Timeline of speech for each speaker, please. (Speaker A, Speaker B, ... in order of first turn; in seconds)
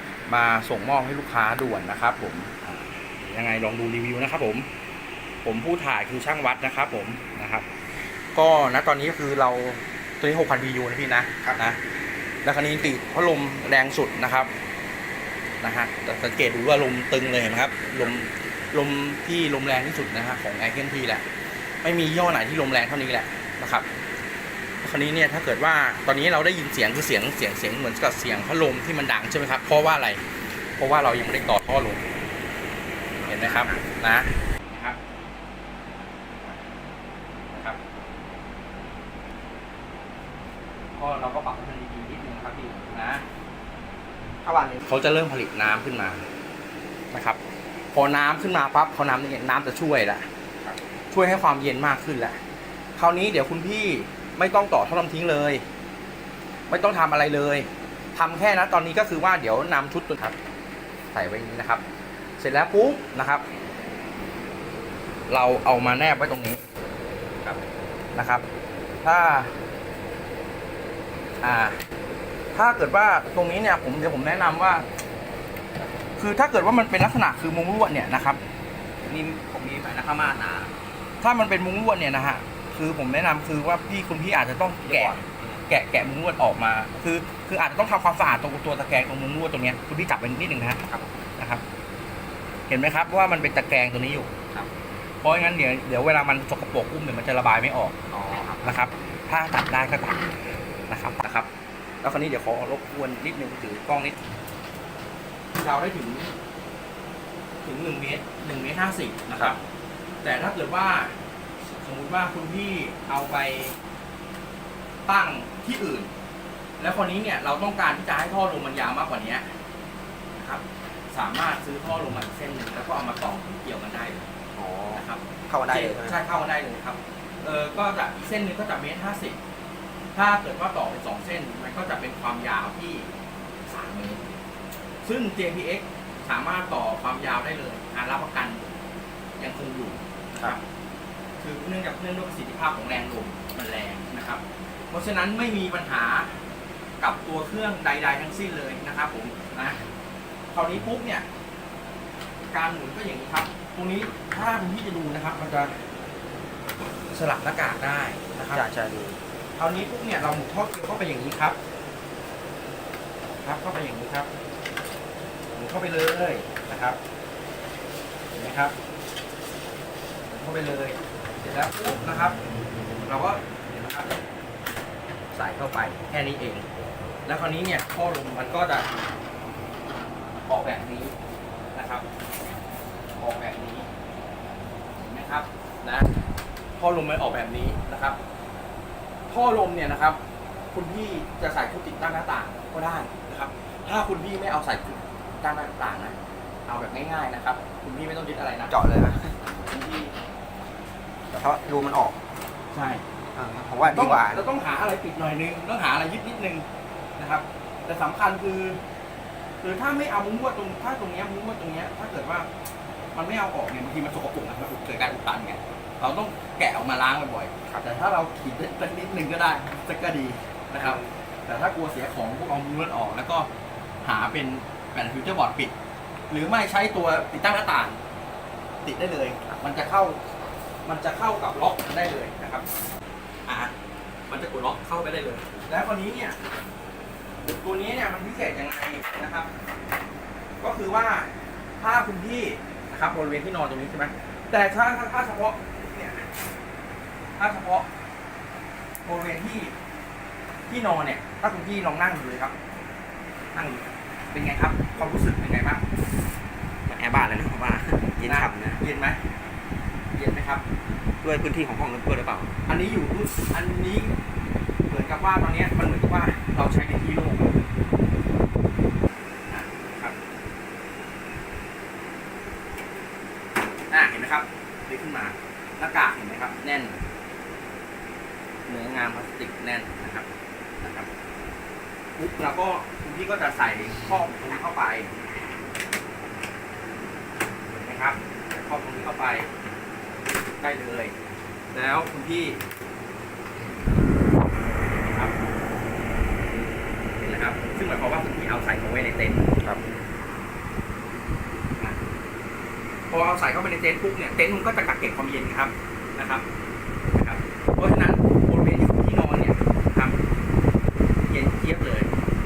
Speaker A: 0.3-4.7, 5.4-7.7, 8.3-11.8, 12.4-14.5, 15.6-21.2, 21.8-23.9, 24.8-30.2, 30.8-32.0, 33.3-35.0, 37.5-37.8, 40.9-43.2, 44.9-46.2, 47.1-47.4, 47.9-50.3, 51.1-52.4, 53.0-55.6, 56.7-60.3, 61.1-61.8, 62.4-63.4, 65.3-66.6, 68.1-68.5, 69.0-69.5, 71.4-71.8, 72.5-74.9, 76.2-78.4, 81.2-90.8, 91.4-91.6, 92.7-94.3, 95.2-97.9, 98.6-100.2, 100.9-101.5, 102.0-104.2, 105.6-106.3, 107.6-109.6, 110.2-111.1, 111.8-113.8, 115.0-116.1, 116.8-119.5, 120.3-124.3, 124.9-129.4, 130.1-133.1, 133.7-134.2, 135.0-138.8, 139.4-140.6, 141.4-146.4, 147.0-149.8, 150.5-151.2, 152.5-155.8, 157.1-158.6, 159.6-161.6, 163.3-164.3, 165.6-167.0, 168.3-168.7, 170.3-172.4, 173.0-174.2, 175.3-176.7, 177.2-178.9, 180.5-181.1, 181.7-182.1, 183.2-183.9, 185.0-186.1, 186.8-188.2, 189.3-190.2, 190.7-196.1, 196.7-198.7, 199.7-200.1, 202.7-203.0, 203.8-206.6, 207.2-208.8, 209.6-212.5, 213.1-223.5, 224.0-225.7, 226.3-228.0, 228.8-230.2, 230.8-232.7, 233.4-233.7, 234.3-236.4, 237.5-239.5, 240.6-246.3, 247.4-247.9, 249.0-249.7, 250.7-252.5, 253.5-255.8, 258.2-259.2, 260.1-260.6, 262.7-264.1, 264.9-267.6, 269.5-270.1, 273.9-277.0, 278.7-280.3, 280.8-281.1, 282.2-285.1, 287.7-289.5, 290.6-291.1, 291.7-292.6, 294.8-295.3, 297.2-299.5, 303.1-306.4, 307.1-310.2, 311.2-312.1
Speaker B: 33.2-33.8, 44.4-44.9, 79.0-80.7, 84.8-85.6, 98.1-98.8, 124.5-126.1, 158.5-159.2, 198.7-199.4, 201.3-202.2, 203.3-204.4, 220.7-221.1, 256.9-258.8, 261.2-262.5